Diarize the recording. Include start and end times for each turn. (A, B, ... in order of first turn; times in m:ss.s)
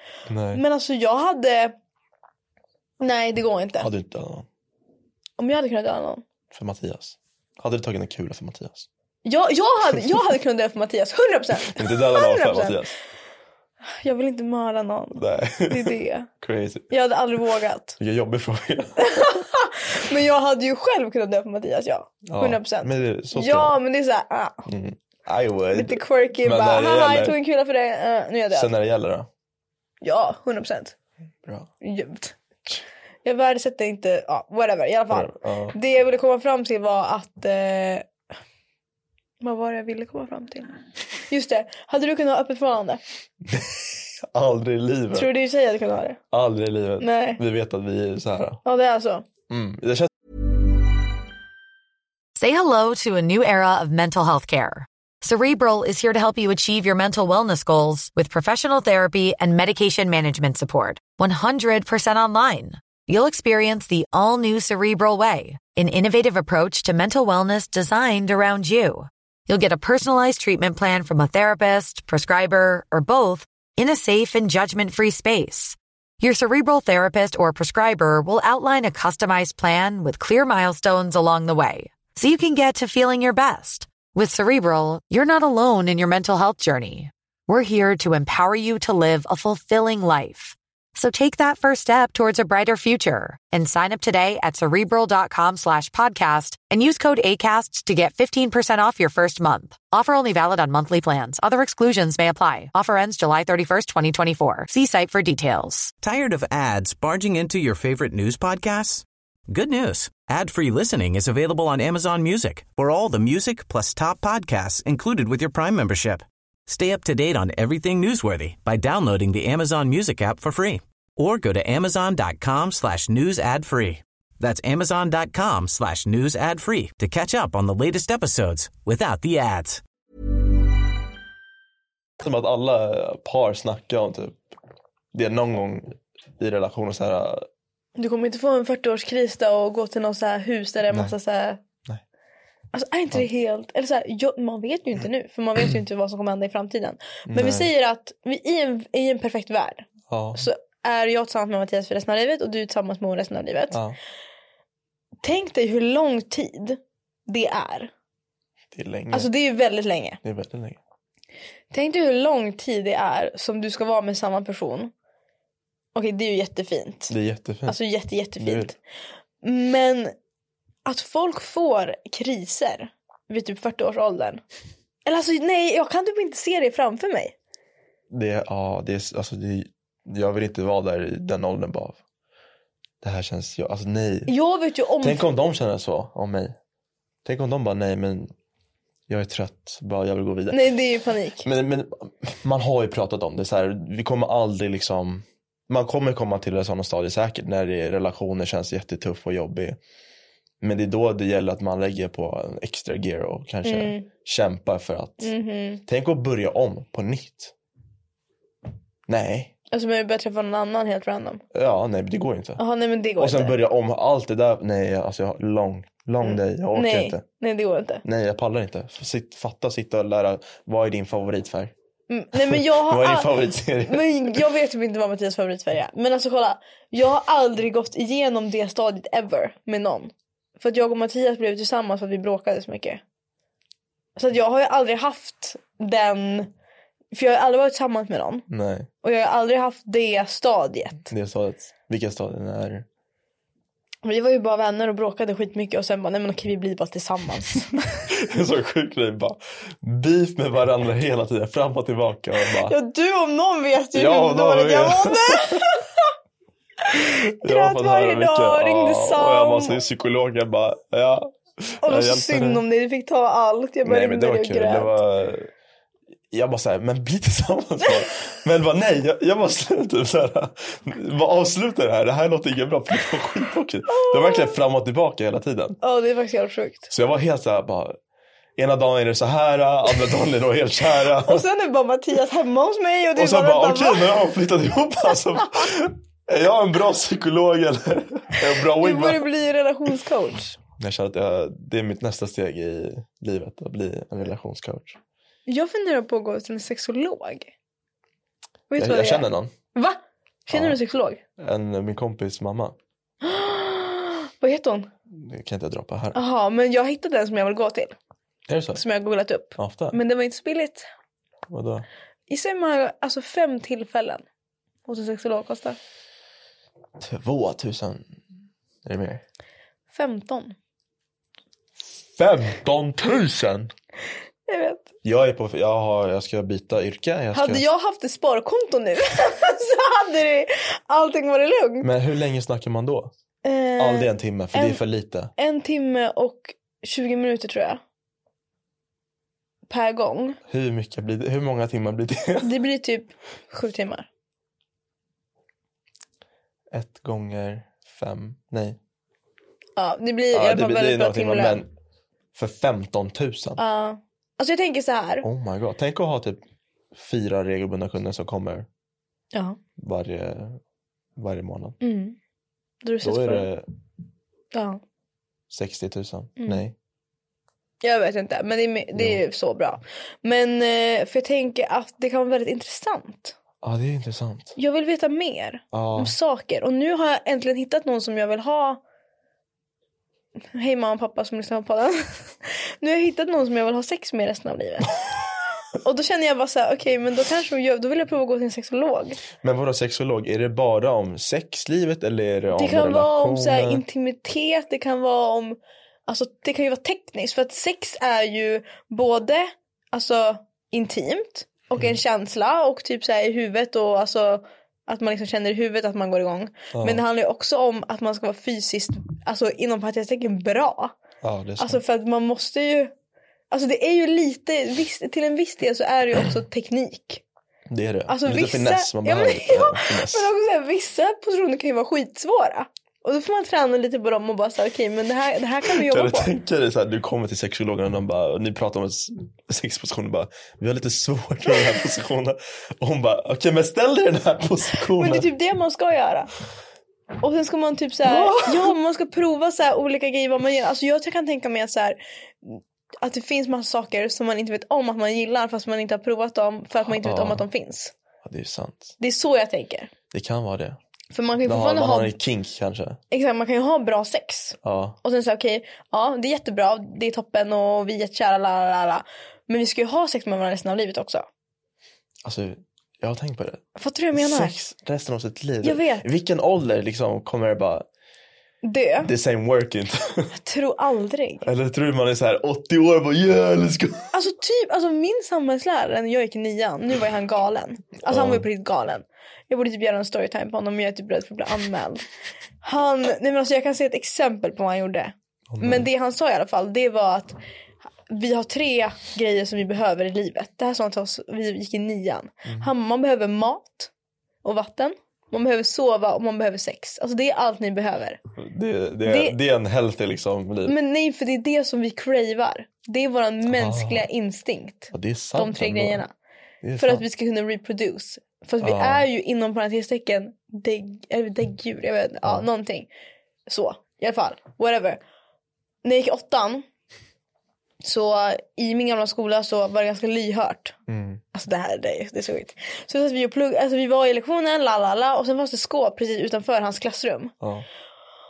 0:00.3-0:00.6 A
0:00.5-0:01.8 B
0:03.0-0:03.9 B
0:03.8-0:04.5 A
0:05.4-0:06.2 B
0:06.5-0:08.9 A
0:09.2-0:12.8 B
0:11.6-0:12.9 A
0:14.0-0:16.3 B
0:15.2-0:16.9 A
0:16.9-0:18.0 B
0:18.0-0:19.0 A
0:19.0-0:24.6 B
0:22.3-0:23.8 A
0:24.7-0:27.4 A
0:25.7-0:28.7 B
0:28.5-0:29.3 A
0:30.0-0:31.0 B
0:31.8-0:38.1 B
0:35.1-0:35.8 A
0:39.4-0:43.0 B
0:44.3-0:45.3 A
0:45.1-0:46.2 B
0:46.3-0:48.6 A
0:47.0-0:47.4 B
0:48.6-0:49.3 B
0:49.5-0:50.1 A
0:52.4-1:45.9 C
1:46.0-2:09.8 D
2:12.2-2:14.4 A
2:15.1-2:17.5 A
2:18.0-2:21.6 B
2:22.7-2:33.8 B
2:27.3-2:27.7 A
2:30.1-2:30.5 A
2:33.7-2:34.0 A
2:35.2-2:37.9 B
2:38.7-2:39.3 A
2:39.1-2:40.2 B
2:40.2-2:40.8 A
2:41.7-2:44.9 B
2:46.0-2:47.1 B
2:47.1-2:47.8 A
2:47.7-2:48.8 B
2:48.4-2:48.7 A
2:49.4-2:50.1 B
2:50.9-2:54.4 B
2:55.1-2:57.3 B
2:58.1-3:02.0 A
3:03.0-3:04.3 A
3:04.3-3:05.3 B
3:05.0-3:06.6 A
3:07.2-3:08.3 A
3:09.1-3:10.7 A
3:10.5-3:11.5 B
3:11.4-3:19.8 A
3:20.6-3:25.3 A
3:23.6-3:24.1 B
3:25.2-3:25.8 B
3:25.9-3:27.5 A
3:29.1-3:29.5 A
3:29.7-3:31.4 B
3:31.5-3:32.6 A
3:32.6-3:33.6 B
3:33.2-3:37.2 A
3:36.2-3:38.0 B
3:38.0-3:41.7 A
3:42.1-3:53.0 B
3:42.5-3:44.4 A
3:54.2-3:56.5 B
3:57.1-3:58.5 B
3:58.5-3:58.9 A
3:59.0-4:01.1 B
4:01.1-4:02.9 A
4:04.0-4:08.0 B
4:08.1-4:12.8 A
4:12.6-4:16.1 B
4:13.9-4:15.7 A
4:16.8-4:19.8 B
4:17.0-4:22.6 A
4:21.8-4:25.0 B
4:23.8-4:25.5 A
4:26.3-4:35.8 A
4:33.9-4:34.6 B
4:35.8-4:36.9 B
4:36.9-4:38.0 A
4:38.6-4:41.4 A
4:41.0-4:44.2 B
4:43.2-4:49.2 A
4:48.6-4:50.6 B
4:50.8-4:55.0 A
4:55.5-4:57.5 B
4:58.7-5:01.2 B
4:58.8-4:59.5 A
5:00.5-5:00.8 A
5:01.4-5:02.8 A
5:03.2-5:04.9 B
5:05.1-5:06.2 A
5:06.1-5:08.0 B
5:08.5-5:08.8 A
5:08.8-5:10.9 B
5:09.6-5:10.0 A
5:11.5-5:11.9 A
5:12.3-5:14.2 B
5:14.9-5:15.8 B
5:17.0-5:18.1 A
5:18.8-5:19.2 A
5:19.9-5:20.6 B
5:22.2-5:23.7 A
5:24.5-5:24.9 B
5:25.0-5:27.6 A
5:27.3-5:31.9 B
5:31.8-5:33.1 A
5:33.4-5:34.8 B
5:33.8-5:35.3 A
5:35.4-5:37.8 B
5:39.7-5:40.4 B
5:40.5-5:42.5 A
5:42.4-5:44.1 B
5:46.7-5:48.8 A
5:49.8-5:51.6 B
5:50.3-5:51.7 A
5:52.3-5:53.6 A
5:53.6-5:55.3 B
5:55.2-5:56.4 A
5:56.9-5:58.7 A
5:59.3-5:59.6 B
5:59.8-6:00.6 A
6:01.2-6:01.8 A
6:01.8-6:02.2 B
6:02.8-6:03.5 B
6:03.0-6:03.7 A
6:04.5-6:04.8 B
6:05.5-6:06.8 A
6:06.4-6:06.6 B
6:07.8-6:13.4 B
6:09.0-6:09.2 A
6:13.6-6:14.6 A
6:14.6-6:18.8 B
6:15.7-6:16.2 A
6:20.5-6:25.0 B
6:25.8-6:29.2 B
6:29.4-6:33.8 A
6:32.5-6:51.0 B
6:46.7-6:47.0 A
6:51.2-6:51.8 A
6:51.6-6:52.9 B
6:53.5-6:57.2 B
6:57.7-7:00.3 A
6:58.1-7:06.3 B
7:05.7-7:15.3 A
7:14.9-7:16.3 B
7:17.2-7:27.9 B
7:18.0-7:18.7 A
7:26.9-7:27.5 A
7:28.2-7:29.0 A
7:29.0-7:29.9 B
7:30.1-7:30.8 A
7:31.1-7:32.2 B
7:31.4-7:33.0 A
7:33.1-7:41.3 B
7:34.6-7:35.0 A
7:42.2-7:47.8 A
7:43.8-7:44.6 B
7:45.6-7:46.0 B
7:48.6-7:49.1 B
7:49.0-7:50.3 A
7:50.3-7:51.5 B
7:51.4-7:54.1 A
7:54.1-8:02.0 B
7:58.0-7:58.4 A
8:02.6-8:07.4 B
8:05.5-8:05.9 A
8:08.1-8:13.9 B
8:14.4-8:18.2 B
8:18.4-8:20.8 A
8:19.0-8:19.4 B
8:20.6-8:26.1 B
8:23.5-8:24.1 A
8:24.9-8:26.0 A
8:26.6-8:27.0 A
8:26.8-8:32.9 B
8:28.6-8:29.1 A
8:33.5-8:35.0 B
8:35.8-8:36.7 B
8:37.8-8:40.8 B
8:40.9-8:41.2 A
8:41.3-8:47.3 B
8:47.4-8:47.7 A